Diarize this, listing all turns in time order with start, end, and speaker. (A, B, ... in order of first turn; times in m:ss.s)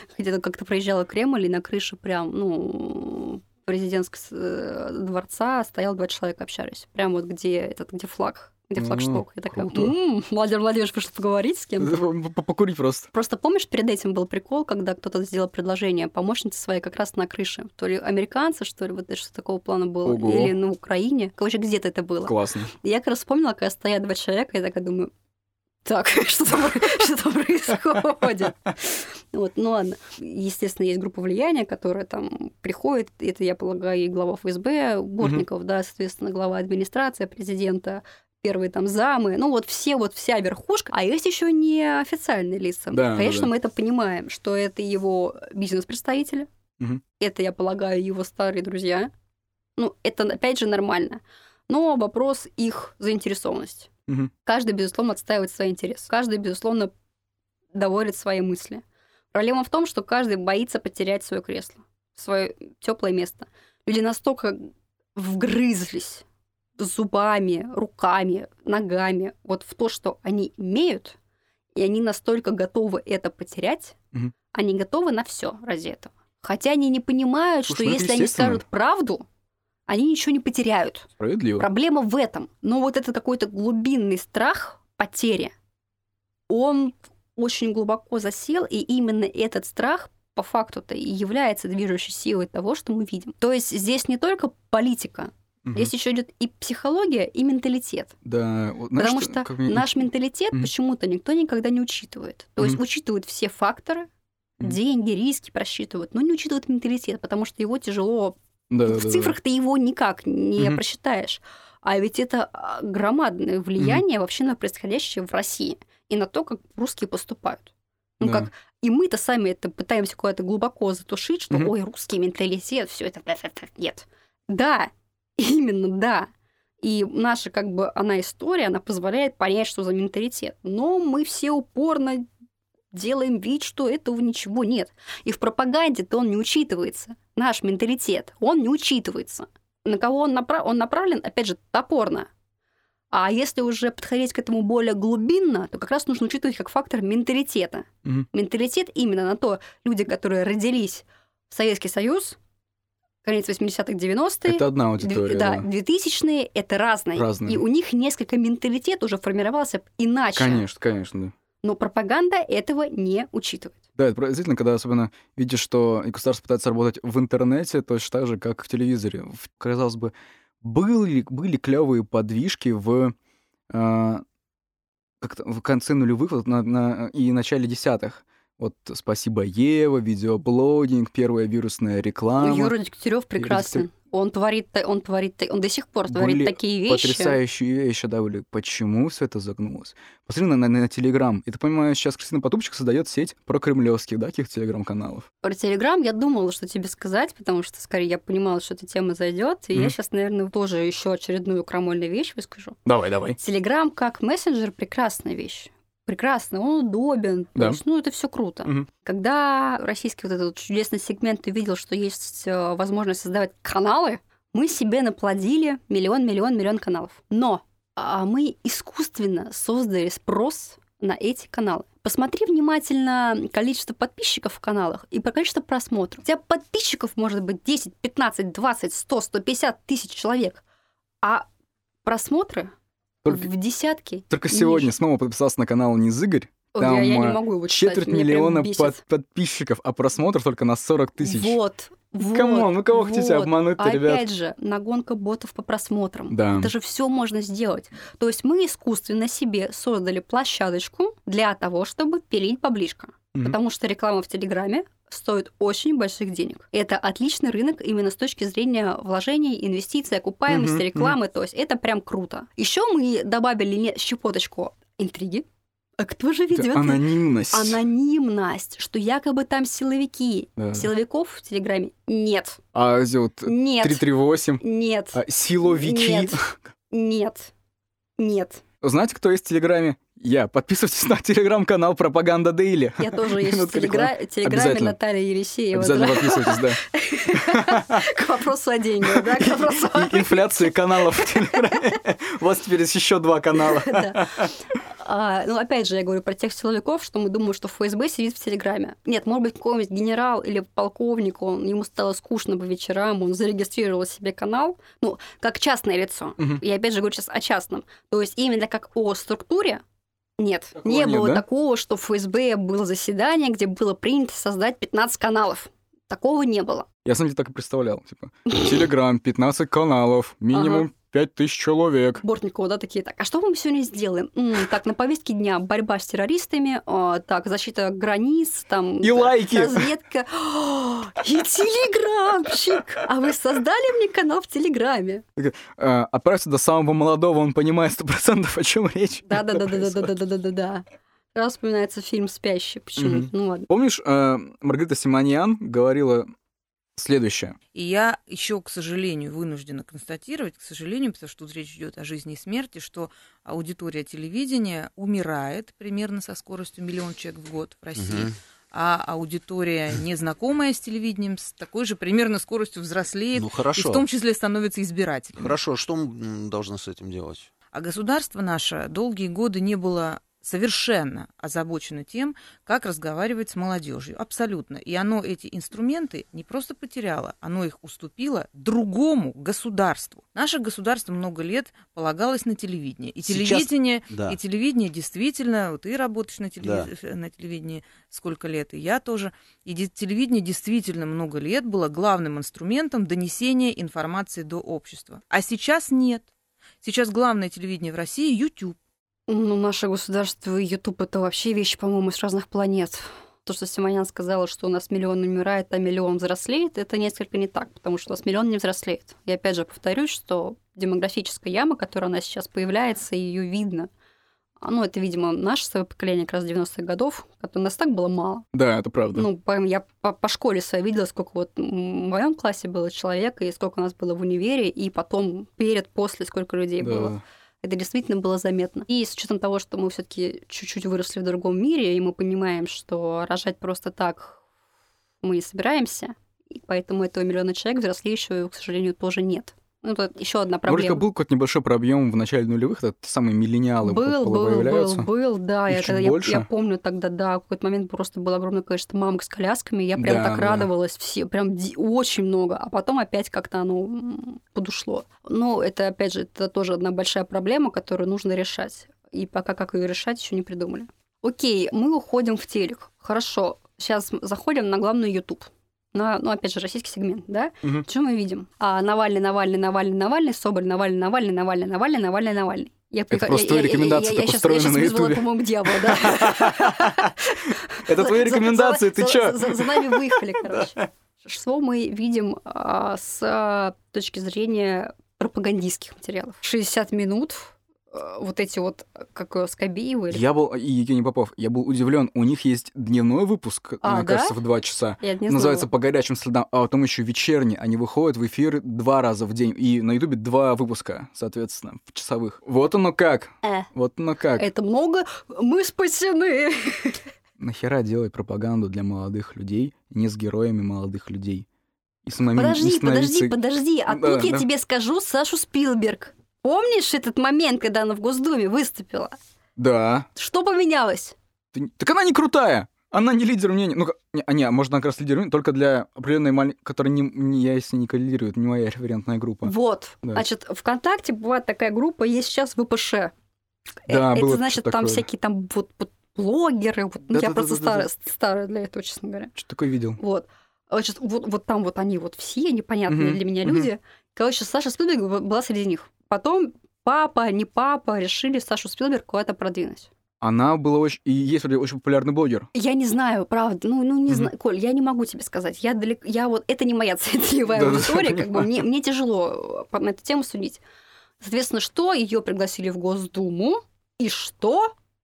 0:00.1-0:12.0 A
0:08.8-0:09.9 B
0:11.8-0:13.1 B
0:13.1-0:25.1 A
0:20.0-0:20.6 B
0:22.2-0:22.7 B
0:25.8-0:46.5 A
0:42.9-0:43.5 B
0:47.2-0:49.1 A
0:49.8-0:53.9 A
0:54.4-0:56.9 A
0:57.7-0:58.8 A
0:59.3-1:06.2 A
1:06.8-1:11.2 A
1:11.8-1:14.0 A
1:14.5-1:19.2 A
1:17.7-1:18.6 B
1:19.9-1:25.5 A
1:21.2-1:21.7 B
1:26.5-1:38.1 A
1:35.7-1:35.9 B
1:38.2-1:39.9 B
1:39.0-1:44.1 A
1:44.6-2:06.3 A
1:48.7-1:49.4 B
1:58.2-1:58.5 B
2:06.8-2:12.3 A
2:12.9-2:22.3 A
2:23.1-2:32.4 A
2:33.2-2:40.6 A
2:34.5-2:35.7 B
2:37.2-2:37.6 B
2:40.4-2:41.3 B
2:41.6-2:43.8 A
2:44.0-2:53.1 B
2:53.7-2:54.2 B
2:55.2-3:02.7 B
3:02.4-3:07.4 A
3:03.4-3:03.9 B
3:06.1-3:15.3 B
3:15.4-3:22.8 A
3:22.9-3:23.4 B
3:23.4-3:50.6 A
3:52.0-3:52.7 A
3:53.2-3:53.5 B
3:53.3-3:54.9 A
3:54.3-4:01.6 B
3:56.8-3:59.0 A
4:01.2-4:25.5 A
4:02.2-4:04.3 B
4:06.3-4:06.7 B
4:20.5-4:21.2 B
4:26.0-4:32.6 A
4:26.5-4:27.8 B
4:30.6-4:30.9 B
4:32.7-4:34.6 B
4:33.5-4:34.1 A
4:34.6-4:36.4 A
4:35.1-4:36.6 B
4:36.9-4:37.5 A
4:38.2-4:38.6 A
4:38.8-4:45.0 B
4:43.0-4:51.8 A
4:45.7-4:48.1 B
4:49.0-4:54.5 B
4:53.6-5:09.8 A
5:10.4-5:16.9 A
5:10.8-5:11.4 B
5:17.1-5:22.2 B
5:20.5-5:20.9 A
5:22.2-5:35.2 A
5:29.0-5:29.8 B
5:35.4-5:40.1 B
5:39.3-5:40.8 A
5:41.4-5:43.7 A
5:43.0-5:46.3 B
5:47.0-5:47.6 B
5:47.7-6:05.6 C
5:58.0-5:58.4 D
6:03.4-6:04.0 D
6:05.4-6:07.5 D
6:07.7-6:36.3 C
6:23.3-6:24.4 D
6:26.6-6:26.9 D
6:36.8-6:38.8 C
6:39.3-6:53.9 A
6:54.6-6:58.5 A
6:58.5-6:59.3 B
6:59.1-7:14.4 A
7:06.8-7:07.2 B
7:15.2-7:21.0 A
7:20.7-7:25.1 B
7:23.8-8:10.2 A
7:25.7-7:26.5 B
7:30.0-7:30.7 B
7:53.1-7:57.2 B
7:57.8-8:00.9 B
8:10.1-8:24.5 B
8:13.8-8:14.4 A
8:15.0-8:15.7 A
8:23.4-8:23.7 A
8:24.4-8:27.0 A
8:27.4-8:31.5 B
8:32.0-8:33.4 B
8:32.3-8:39.2 A
8:33.9-8:34.5 B
8:39.6-8:40.1 B
8:40.2-8:41.2 A
8:41.5-8:49.5 B
8:49.4-8:53.1 A
8:53.9-8:59.3 A
8:53.9-8:55.1 B
8:57.1-8:57.9 B
8:59.4-9:00.0 B
9:00.0-9:09.9 A
9:02.9-9:03.7 B
9:10.2-9:12.5 B
9:12.5-9:20.6 A
9:17.5-9:18.6 B
9:21.2-9:24.7 A